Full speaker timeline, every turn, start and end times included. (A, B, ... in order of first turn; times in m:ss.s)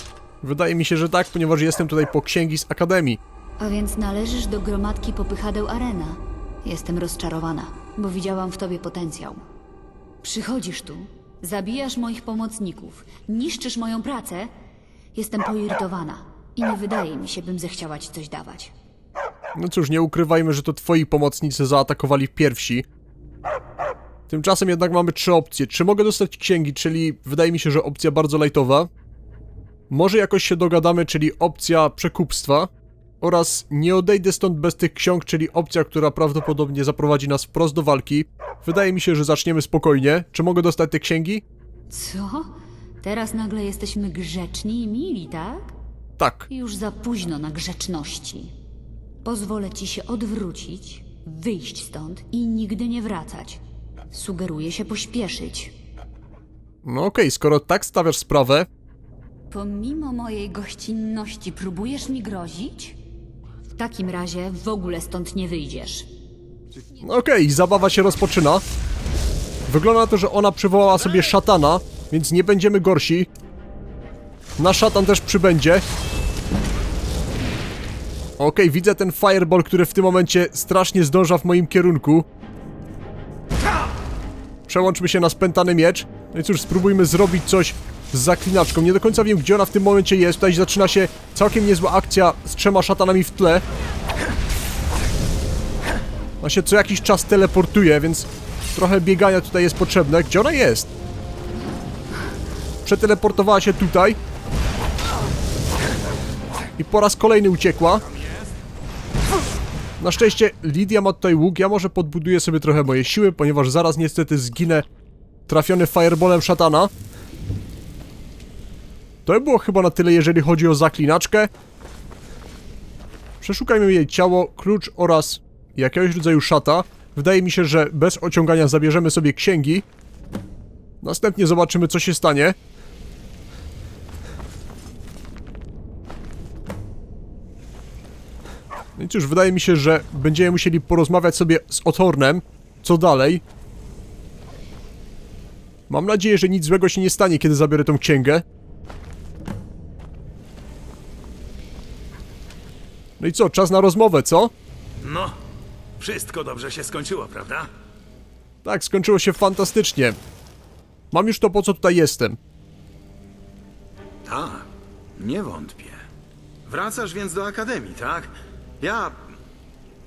0:00.4-0:03.2 A
0:03.6-0:09.4 B
0:10.2-0:14.5 B
0:15.1-0:18.7 B
0:19.6-0:22.8 A
0:24.3-0:28.9 A
0:29.9-0:32.7 A
0:33.2-0:41.4 A
0:41.9-0:45.7 B
0:46.2-0:46.5 A
0:46.5-0:48.5 B
0:49.2-0:53.6 B
0:54.1-0:55.7 B
0:56.8-0:58.7 A
0:59.5-1:03.0 B
1:03.7-1:06.1 B
1:07.0-1:08.6 A
1:09.7-1:13.3 A
1:14.6-1:15.8 A
1:18.4-1:22.3 A
1:24.7-1:33.6 A
1:36.4-1:40.9 A
1:42.8-1:44.2 A
1:46.8-1:48.0 A
1:50.0-1:54.8 A
1:55.5-1:56.9 A
1:59.2-2:01.5 A
2:03.4-2:09.8 A
2:11.0-2:12.6 A
2:19.0-2:23.4 A
2:25.9-2:28.4 A
2:33.2-2:34.5 A
2:35.0-2:35.4 C
2:36.0-2:37.7 C
2:38.6-2:40.2 A
2:41.1-2:42.4 A
2:44.2-2:46.0 C
2:46.6-2:49.3 C